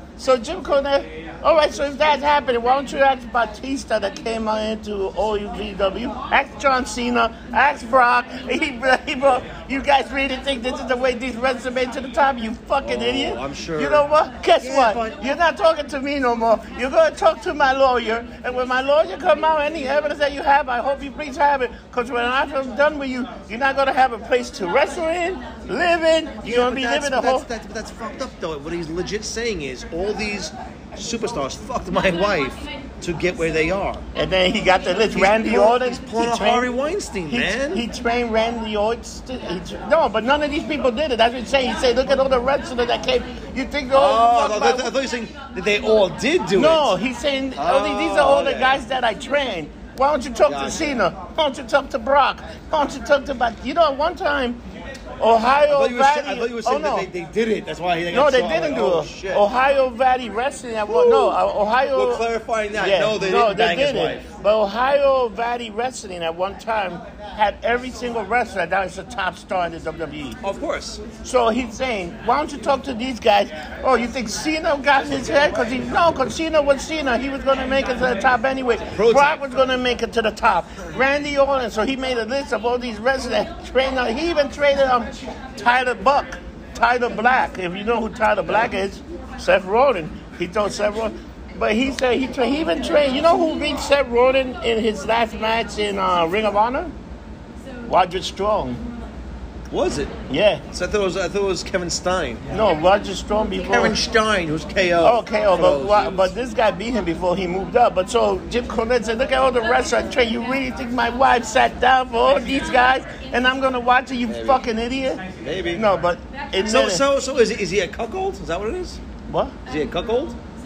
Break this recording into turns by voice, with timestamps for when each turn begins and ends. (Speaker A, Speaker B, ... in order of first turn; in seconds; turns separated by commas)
Speaker A: 0.2-27.5, Speaker B: 12.8-14.1, Speaker B: 14.6-15.4, Speaker B: 26.4-34.0, Speaker A: 34.1-36.7, Speaker B: 35.1-37.8, Speaker A: 37.3-44.9, Speaker B: 43.9-46.9, Speaker A: 46.5-54.6, Speaker B: 47.5-48.8, Speaker B: 50.5-50.9, Speaker A: 55.2-57.1, Speaker B: 55.7-59.4, Speaker A: 58.1-70.4, Speaker B: 60.9-61.4, Speaker B: 61.9-64.3, Speaker B: 70.4-71.0, Speaker A: 71.2-96.9, Speaker B: 78.9-79.4, Speaker A: 97.9-98.8, Speaker B: 99.7-100.1, Speaker A: 100.3-100.6, Speaker B: 100.7-102.4, Speaker A: 102.5-104.0, Speaker B: 103.7-106.3, Speaker A: 105.0-115.2, Speaker B: 114.3-114.6, Speaker B: 115.4-115.8, Speaker A: 115.7-117.0, Speaker B: 116.6-119.0, Speaker A: 119.3-119.5, Speaker B: 119.7-120.4